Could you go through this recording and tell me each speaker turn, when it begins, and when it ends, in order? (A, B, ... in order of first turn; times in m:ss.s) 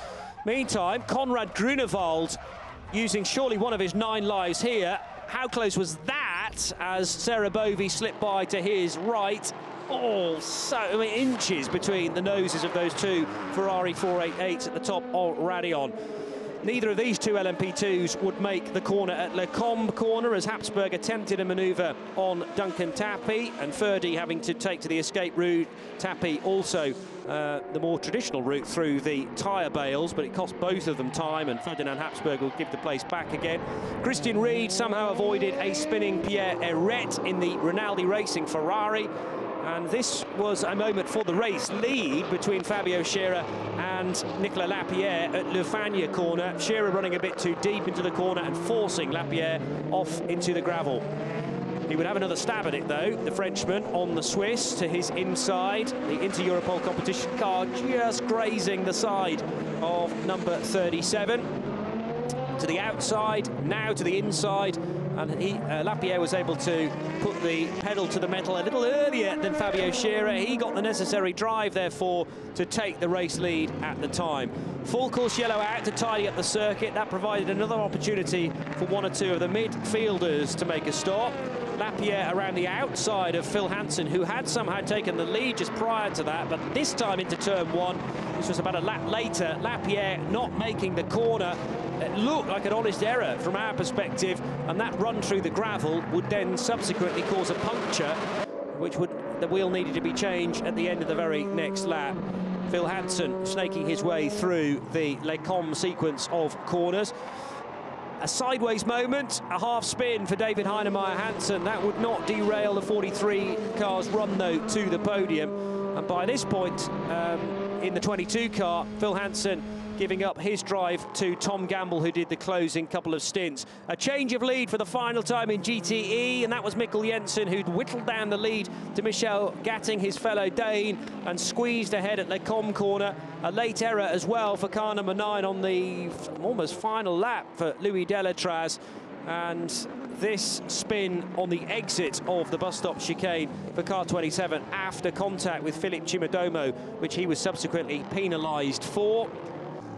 0:00.4-0:02.4 A
0:02.9-0:15.9 A
0:16.6-0:51.0 A
0:51.9-1:01.5 A
1:02.6-1:38.2 A
1:38.7-1:47.1 A
1:48.2-2:29.3 A